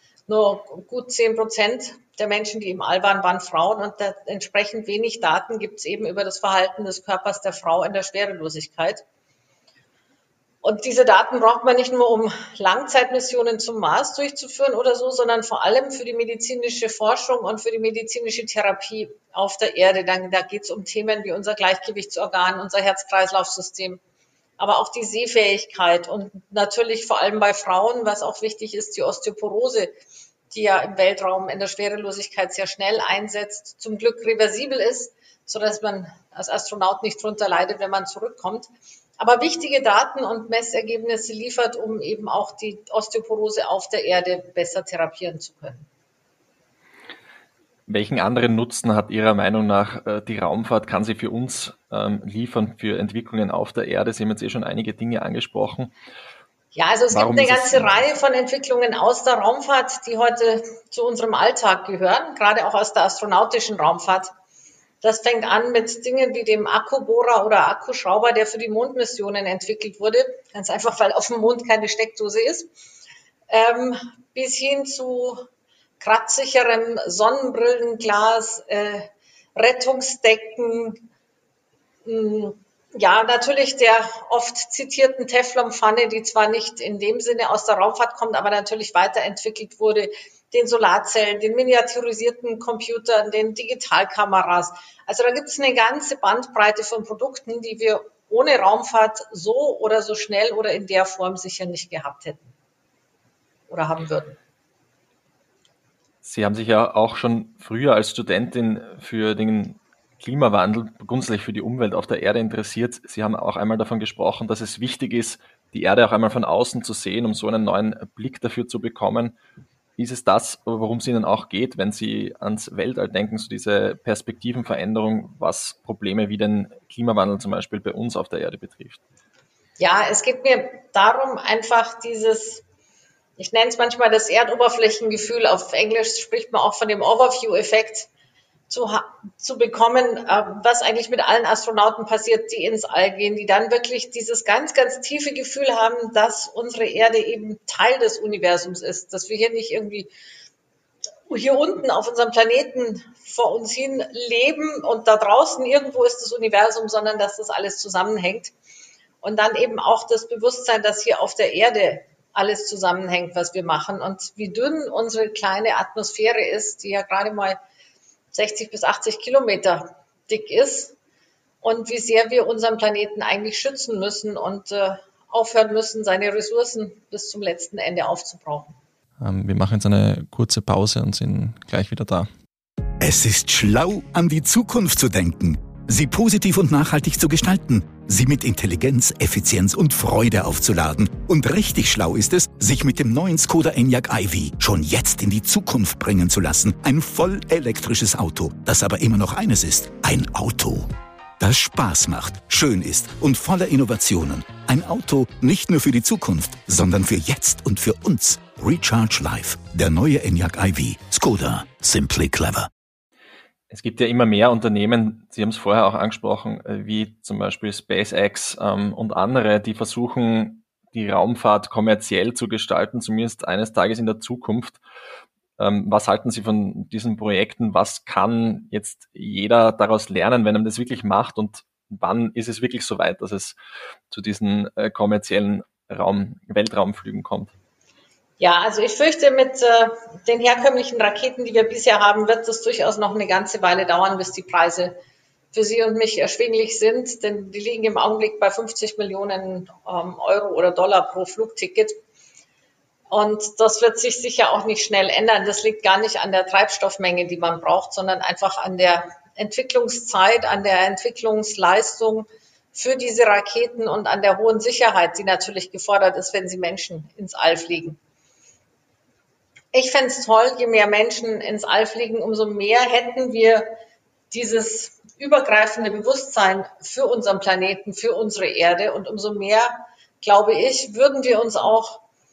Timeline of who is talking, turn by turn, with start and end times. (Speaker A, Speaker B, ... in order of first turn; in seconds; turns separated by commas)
Speaker A: 0.3-9.0, Speaker A: 10.6-24.0, Speaker A: 24.6-30.0, Speaker A: 30.5-45.9, Speaker B: 47.9-55.9, Speaker A: 56.7-64.3, Speaker B: 57.1-58.0, Speaker A: 65.0-72.7, Speaker A: 73.5-75.5, Speaker A: 76.0-81.0, Speaker A: 82.0-102.5, Speaker A: 103.7-104.4, Speaker B: 106.2-119.3, Speaker B: 120.0-129.0, Speaker A: 129.8-132.6, Speaker A: 133.4-138.1, Speaker A: 138.7-150.1, Speaker A: 151.3-158.5, Speaker A: 159.2-167.6, Speaker A: 168.3-170.9, Speaker A: 171.6-178.8, Speaker B: 179.2-182.3, Speaker C: 183.0-212.7, Speaker B: 213.7-224.8, Speaker B: 225.6-233.6, Speaker B: 234.1-237.5, Speaker A: 238.4-245.0, Speaker A: 245.5-251.9, Speaker A: 253.1-268.0, Speaker A: 269.7-273.8, Speaker A: 274.3-282.0